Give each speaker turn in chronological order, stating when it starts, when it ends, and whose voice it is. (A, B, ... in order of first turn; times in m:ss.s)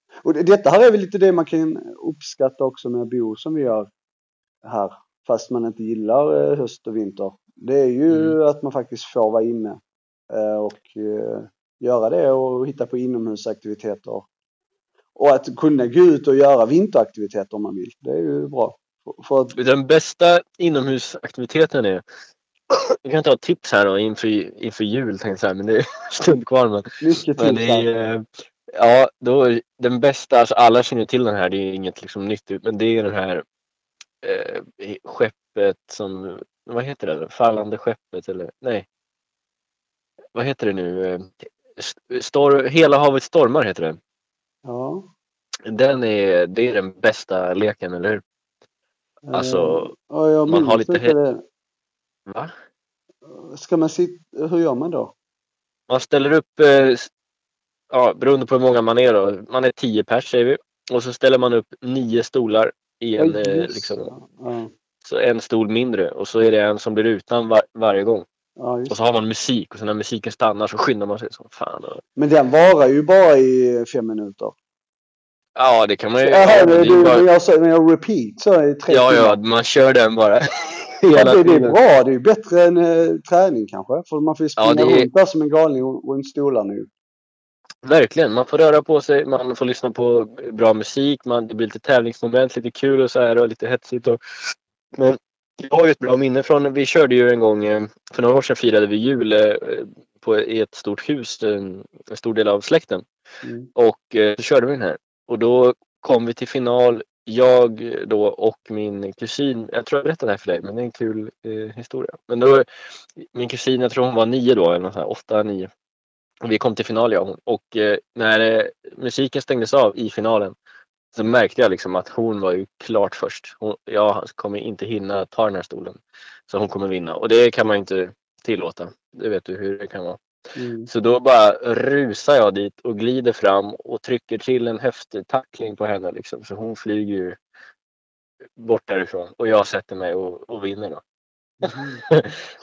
0:00.3-0:03.8 A
0:04.7-0:09.7 A
0:08.1-0:08.4 B
0:10.4-0:11.0 A
0:11.8-0:14.2 A
0:15.2-0:19.5 A
0:19.5-0:22.0 B
0:22.7-0:33.4 B
0:27.0-0:27.8 A
0:34.2-0:38.9 B
0:40.4-0:44.0 B
0:45.7-0:48.2 B
0:49.3-0:51.3 A
0:49.3-0:49.9 B
0:50.5-0:51.1 B
0:53.6-0:55.1 A
0:55.9-0:57.1 B
0:57.9-1:04.1 B
1:03.2-1:04.6 A
1:05.0-1:08.2 B
1:08.6-1:08.9 A
1:08.9-1:12.0 B
1:12.2-1:14.5 A
1:15.6-1:17.2 B
1:16.2-1:19.3 A
1:18.9-1:21.8 B
1:21.1-1:26.8 A
1:24.6-1:25.1 B
1:27.8-1:43.0 B
1:43.8-1:52.6 B
1:53.2-1:55.7 B
1:56.4-2:00.5 B
2:01.1-2:10.2 B
2:10.9-2:17.4 B
2:18.6-2:21.0 B
2:21.6-2:22.4 B